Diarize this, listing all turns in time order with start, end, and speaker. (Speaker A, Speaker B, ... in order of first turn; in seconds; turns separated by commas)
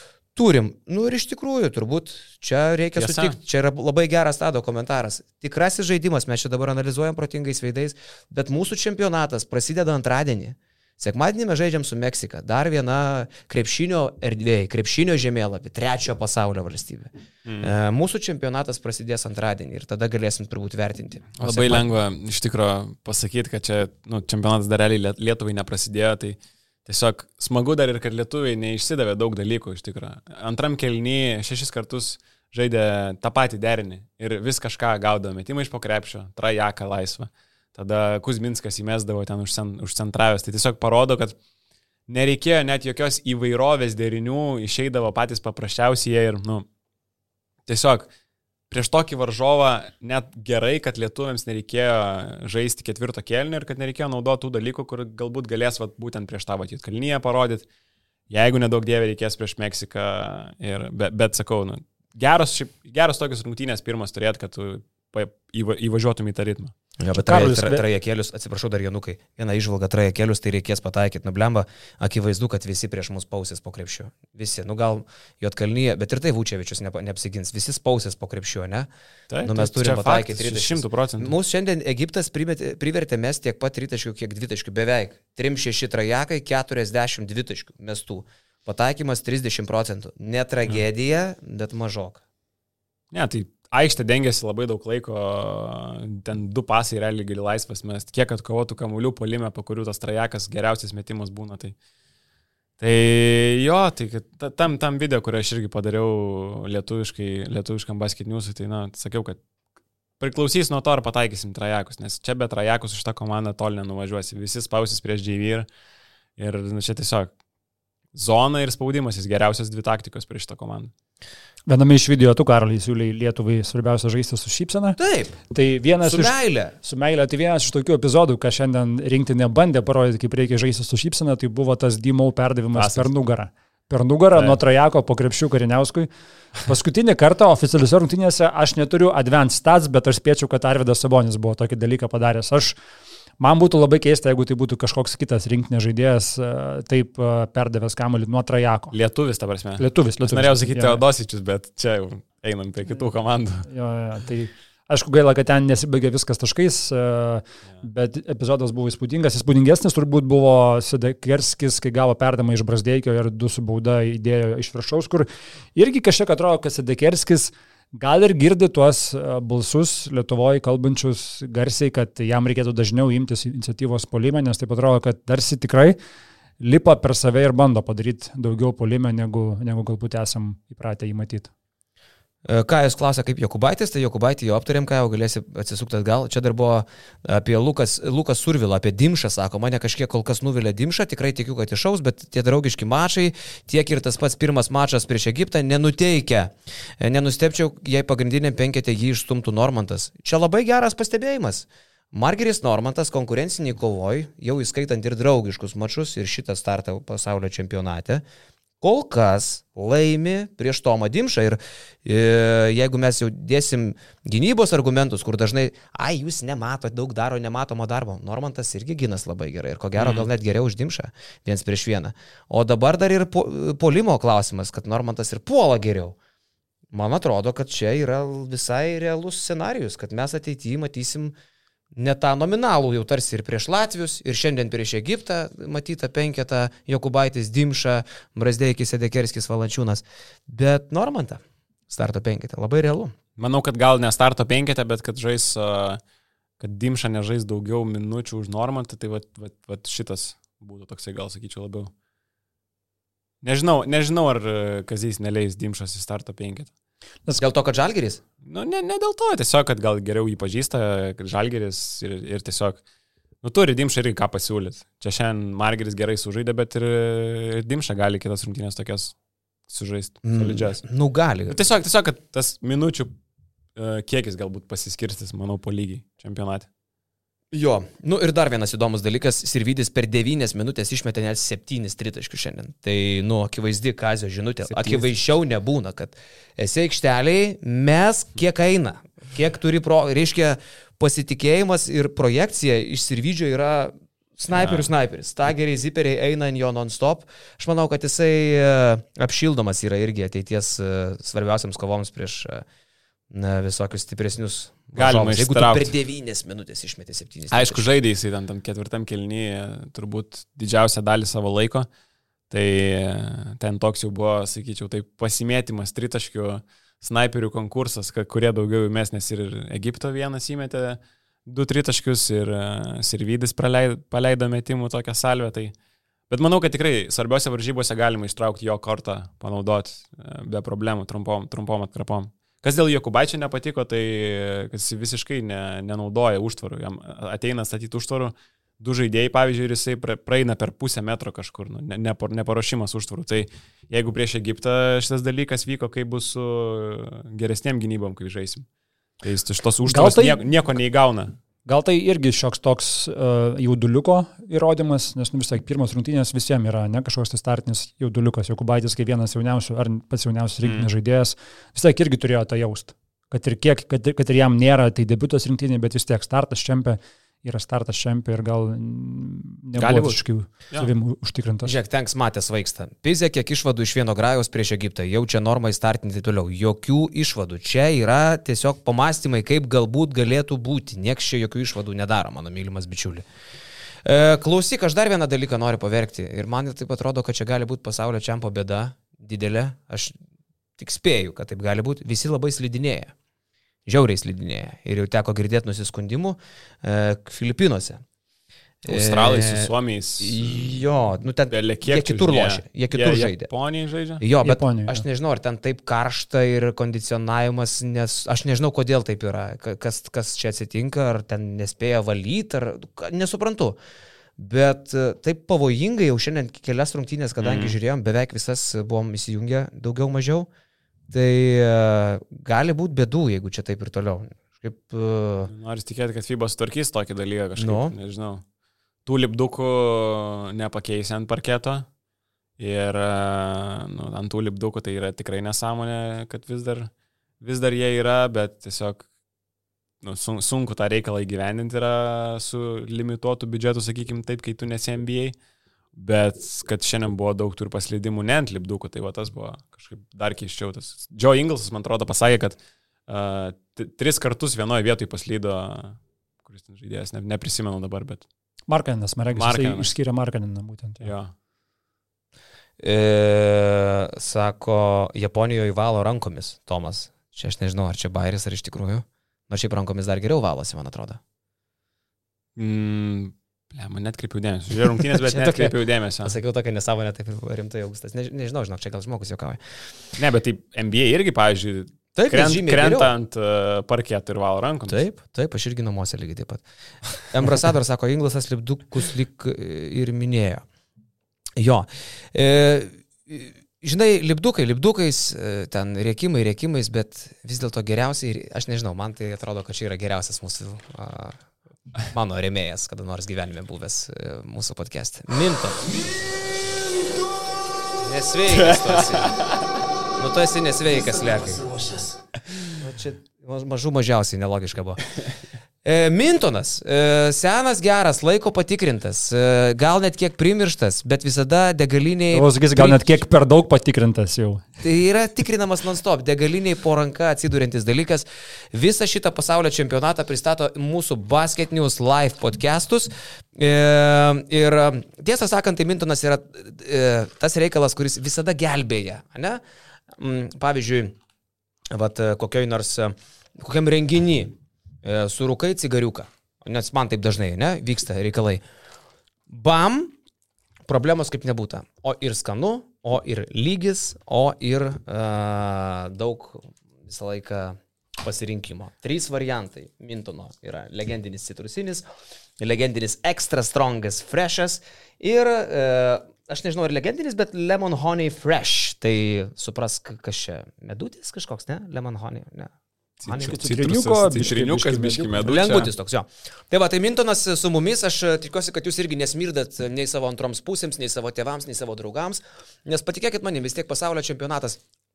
Speaker A: 0.3-21.9, Speaker B: 3.0-3.4, Speaker B: 17.4-17.7, Speaker B: 21.4-41.4, Speaker B: 42.1-46.6, Speaker B: 47.7-48.1, Speaker B: 48.7-57.6, Speaker B: 58.3-66.7, Speaker A: 67.0-78.9, Speaker C: 67.1-67.8, Speaker B: 79.3-81.3, Speaker A: 79.4-92.2, Speaker B: 93.1-101.7, Speaker B: 102.8-109.4, Speaker B: 110.2-115.7, Speaker B: 116.4-117.3, Speaker B: 118.1-120.9, Speaker C: 121.7-125.0, Speaker A: 125.0-125.3, Speaker C: 125.5-136.1, Speaker A: 126.0-126.7, Speaker B: 132.7-133.1, Speaker C: 136.7-142.7, Speaker C: 143.4-148.9, Speaker B: 148.9-153.7, Speaker C: 149.8-151.0, Speaker C: 153.7-175.9, Speaker C: 176.6-181.5, Speaker A: 182.4-208.2, Speaker A: 208.8-226.2, Speaker B: 220.0-220.3, Speaker A: 226.9-231.3, Speaker A: 231.9-243.1, Speaker B: 243.4-246.0, Speaker B: 246.6-251.9, Speaker B: 253.4-256.7, Speaker A: 257.4-258.2, Speaker B: 258.4-262.8, Speaker B: 263.4-269.1, Speaker B: 269.7-270.8, Speaker A: 270.2-271.6, Speaker B: 271.5-273.1, Speaker B: 273.8-276.7, Speaker A: 277.5-302.6, Speaker B: 284.7-285.0, Speaker B: 294.5-294.9, Speaker A: 303.3-307.9, Speaker B: 304.9-305.9, Speaker B: 307.5-311.9, Speaker B: 312.5-325.7, Speaker B: 326.3-348.6, Speaker B: 349.2-351.3, Speaker C: 349.9-350.4, Speaker C: 351.6-371.8, Speaker B: 360.6-360.9, Speaker B: 369.8-370.2, Speaker A: 371.6-383.2, Speaker A: 384.0-390.1, Speaker A: 390.8-393.1, Speaker A: 393.9-398.0, Speaker A: 398.8-403.5, Speaker B: 398.9-400.9, Speaker B: 401.5-404.2, Speaker A: 404.2-413.8, Speaker C: 404.4-405.0, Speaker A: 414.4-420.5, Speaker B: 417.4-417.8, Speaker A: 421.1-425.5, Speaker B: 425.5-428.4, Speaker A: 427.6-427.9, Speaker B: 429.1-431.9, Speaker B: 432.6-436.9, Speaker B: 437.4-439.0, Speaker B: 440.0-445.4, Speaker B: 445.9-458.2, Speaker C: 458.7-461.1, Speaker B: 459.4-459.9, Speaker B: 461.0-461.3, Speaker A: 462.8-471.2, Speaker B: 472.6-476.3, Speaker A: 474.8-479.6, Speaker B: 480.2-485.0, Speaker A: 482.1-483.1, Speaker A: 484.9-486.6, Speaker A: 487.2-490.6, Speaker A: 491.6-501.4, Speaker A: 502.1-505.9, Speaker A: 508.0-509.4, Speaker B: 508.6-509.6, Speaker A: 510.1-512.0, Speaker A: 512.8-515.0, Speaker A: 515.8-523.1, Speaker C: 522.3-524.6, Speaker A: 524.8-539.6, Speaker A: 540.1-541.2, Speaker A: 541.9-548.6, Speaker A: 549.5-550.1, Speaker A: 550.9-562.0, Speaker A: 562.6-572.7, Speaker B: 573.2-575.9, Speaker A: 573.2-573.5, Speaker C: 573.3-575.5, Speaker A: 575.4-584.8